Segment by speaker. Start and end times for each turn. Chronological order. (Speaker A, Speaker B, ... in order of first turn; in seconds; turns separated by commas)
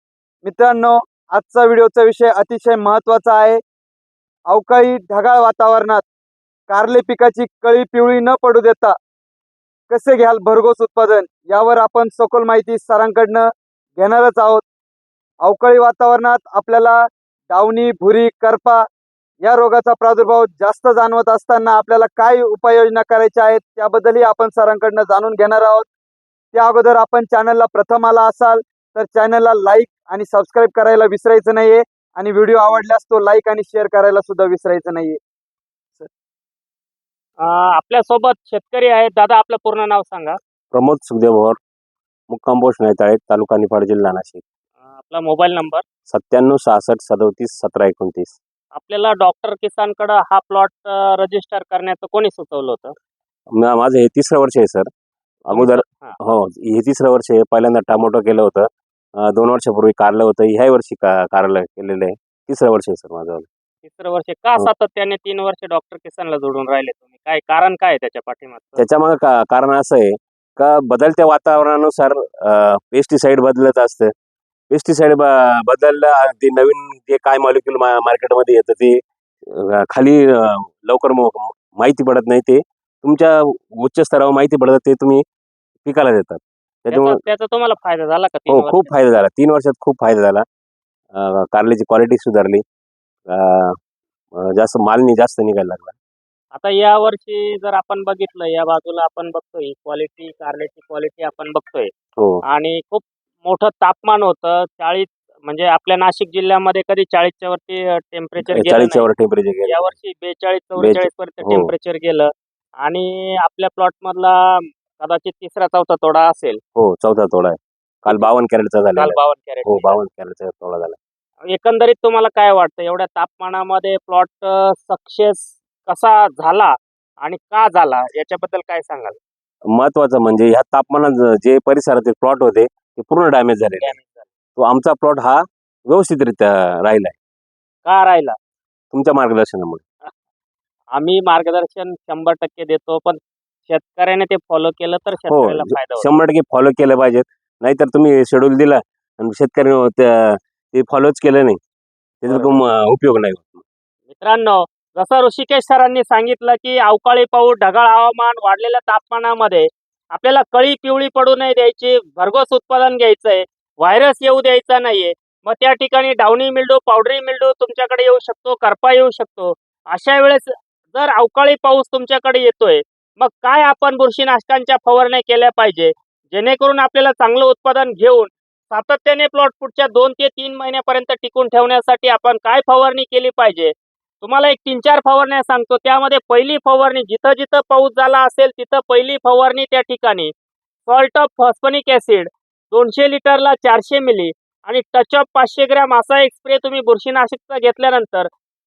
Speaker A: 0.4-3.6, Speaker A: 4.5-6.0, Speaker A: 6.7-8.9, Speaker A: 9.9-13.5, Speaker A: 14.0-14.7, Speaker A: 15.4-18.8, Speaker A: 19.4-25.9, Speaker A: 26.5-35.2, Speaker B: 37.4-40.4, Speaker C: 40.7-41.6, Speaker C: 42.3-44.4, Speaker B: 44.9-45.8, Speaker C: 46.1-48.4, Speaker B: 48.7-53.0, Speaker C: 53.5-54.9, Speaker C: 55.5-63.5, Speaker B: 55.5-56.2, Speaker B: 63.8-68.8, Speaker C: 68.8-74.1, Speaker C: 74.7-85.2, Speaker C: 85.8-87.2, Speaker B: 86.9-88.9, Speaker C: 88.5-90.5, Speaker C: 91.1-92.6, Speaker C: 93.3-93.8, Speaker C: 94.4-96.0, Speaker B: 96.5-101.9, Speaker C: 102.2-102.4, Speaker B: 102.4-109.1, Speaker C: 108.4-109.9, Speaker B: 109.7-116.6, Speaker C: 110.8-111.7, Speaker C: 116.8-121.0, Speaker B: 119.0-120.0, Speaker B: 121.5-129.2, Speaker C: 129.7-133.9, Speaker B: 133.8-134.3, Speaker C: 134.6-137.2, Speaker B: 137.8-138.4, Speaker C: 138.9-139.8, Speaker B: 140.9-146.1, Speaker C: 145.3-151.6, Speaker C: 152.2-153.6, Speaker B: 152.3-152.6, Speaker B: 154.1-190.3, Speaker B: 190.9-198.3